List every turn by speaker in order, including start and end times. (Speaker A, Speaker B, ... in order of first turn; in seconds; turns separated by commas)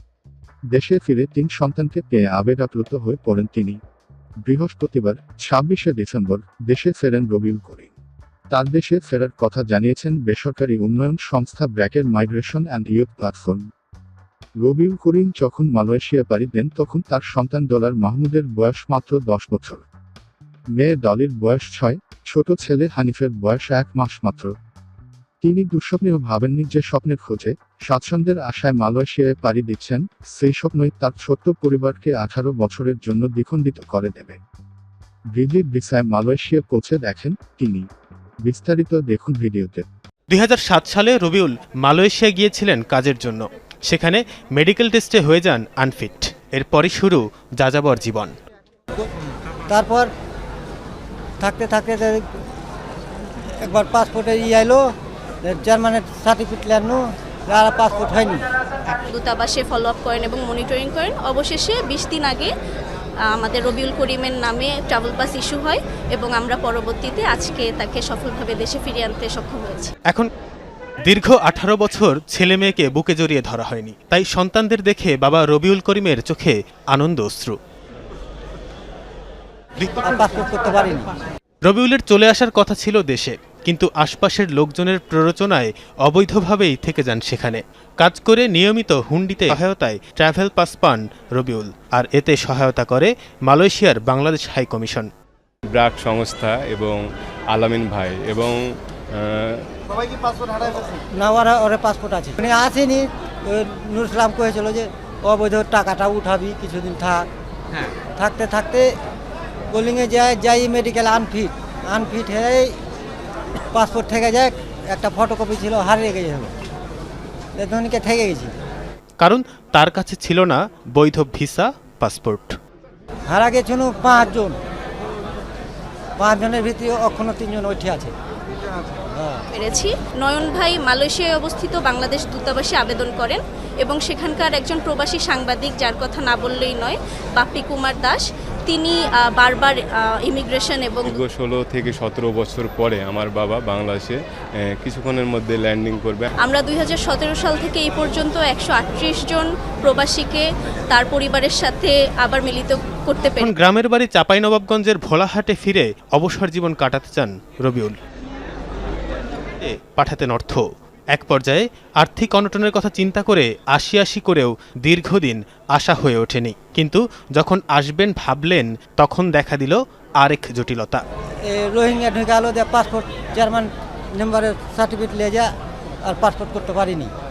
Speaker A: 0.7-3.8, Speaker A: 4.4-7.9, Speaker A: 8.5-13.7, Speaker A: 14.6-19.8, Speaker A: 20.7-24.5, Speaker A: 25.4-34.4, Speaker A: 35.3-37.9, Speaker A: 38.4-39.8, Speaker B: 40.3-48.3, Speaker C: 49.7-50.1, Speaker C: 51.4-52.2, Speaker C: 53.6-54.8, Speaker C: 55.4-58.5, Speaker D: 59.0-62.5, Speaker D: 63.3-69.9, Speaker B: 71.0-77.5, Speaker C: 80.0-81.1, Speaker B: 81.7-95.1, Speaker E: 95.7-97.0, Speaker E: 97.5-98.6, Speaker E: 99.1-99.7, Speaker C: 101.1-107.2, Speaker C: 108.2-108.9, Speaker C: 109.7-112.7, Speaker C: 113.7-116.5, Speaker C: 117.5-118.5, Speaker B: 119.2-122.5, Speaker C: 123.3-124.6, Speaker C: 126.2-128.1, Speaker C: 129.1-129.4, Speaker D: 129.5-141.2, Speaker E: 141.0-146.3, Speaker D: 146.4-153.5, Speaker B: 153.4-157.9, Speaker B: 159.6-171.0, Speaker C: 171.4-175.5, Speaker C: 176.1-177.1